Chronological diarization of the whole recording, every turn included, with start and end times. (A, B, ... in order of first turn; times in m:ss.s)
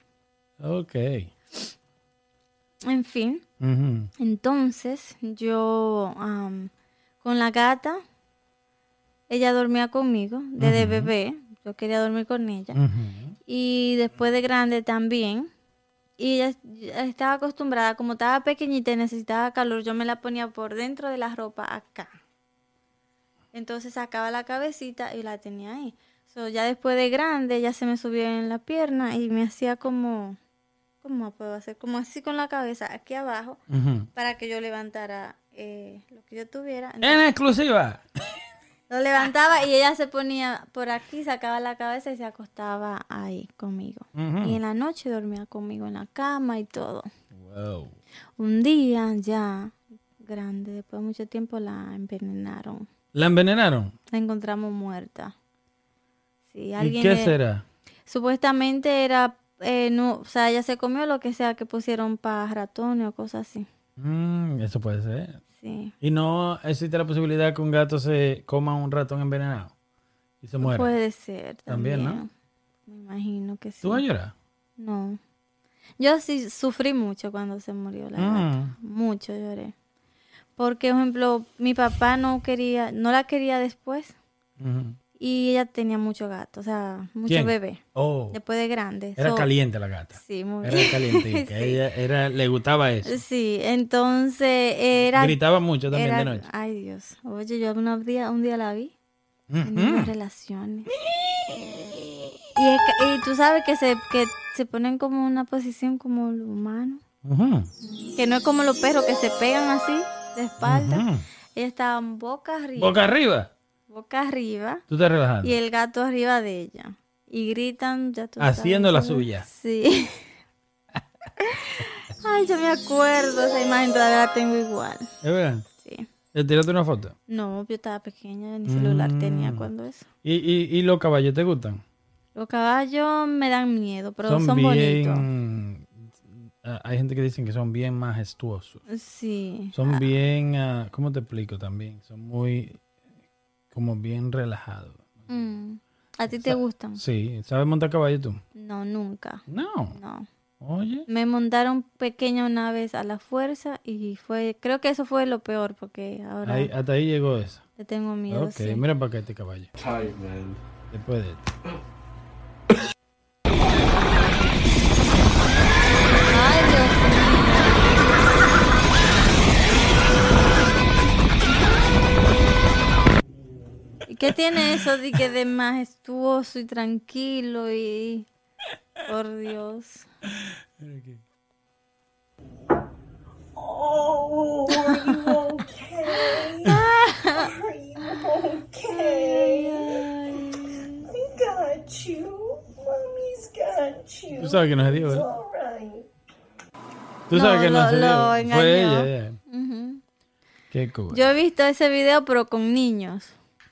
0:00.6-0:01.3 A
0:02.8-0:03.4 B
0:03.6-0:04.1 A
0:04.2-0:06.7 B
0:07.2-0:08.0 B
0:09.3-0:12.8 B
0:10.6-0:11.1 A
0:12.7-0:13.4 A
0:13.5-0:15.5 B
0:16.2-0:22.1 B
0:23.5-0:30.4 B
0:31.0-0:33.6 B
0:33.7-0:34.1 A
0:34.2-0:37.2 B
0:37.0-0:38.0 A
0:38.9-0:47.1 B
0:44.1-0:44.6 A
0:47.3-0:48.0 A
0:48.4-0:52.9 B
0:53.1-0:53.9 A
0:54.1-0:55.3 B
0:56.5-0:57.3 B
0:56.8-0:57.6 A
0:58.1-1:03.7 B
1:04.0-1:05.4 A
1:05.6-1:05.9 B
1:06.0-1:09.7 A
1:10.4-1:10.9 A
1:10.6-1:12.3 B
1:11.7-1:12.2 A
1:12.9-1:14.0 B
1:13.8-1:14.3 A
1:14.8-1:15.2 B
1:16.0-1:19.7 B
1:18.2-1:18.8 A
1:20.6-1:24.1 B
1:24.6-1:25.0 A
1:25.2-1:29.5 B
1:27.3-1:28.4 A
1:29.2-1:33.2 A
1:30.1-1:31.8 B
1:33.0-1:35.4 B
1:35.1-1:36.5 A
1:35.9-1:38.9 B
1:39.5-1:40.1 A
1:39.6-1:40.9 B
1:42.6-1:47.0 B
1:47.2-1:47.7 A
1:48.1-1:51.0 B
1:50.6-1:51.2 A
1:51.5-1:53.0 B
1:52.8-1:53.5 A
1:53.9-1:54.8 B
1:54.9-1:55.5 A
1:55.4-2:00.3 B
1:58.4-1:59.4 A
2:01.4-2:05.1 B
2:05.2-2:05.6 A
2:05.8-2:06.1 B
2:06.3-2:07.1 A
2:07.3-2:10.1 B
2:08.7-2:09.7 A
2:10.2-2:11.8 A
2:12.3-2:15.2 B
2:14.2-2:18.8 A
2:18.9-2:20.0 B
2:19.7-2:22.8 A
2:23.7-2:25.3 A
2:25.3-2:27.0 B
2:26.3-2:28.4 A
2:28.6-2:29.4 B
2:29.5-2:30.0 A
2:29.9-2:30.3 B
2:30.6-2:31.1 A
2:31.1-2:36.7 B
2:36.4-2:37.6 A
2:37.8-2:38.8 B
2:38.3-2:39.7 A
2:39.8-2:40.6 C
2:40.9-2:41.5 A
2:46.2-2:48.1 B
2:54.1-2:58.3 B
2:59.0-3:00.1 B
3:00.8-3:01.2 A
3:03.6-3:16.1 C
3:06.6-3:07.5 B
3:08.9-3:11.1 B
3:14.4-3:15.3 A
3:17.3-3:19.4 A
3:17.3-3:20.0 B
3:20.7-3:21.3 A
3:21.1-3:23.3 B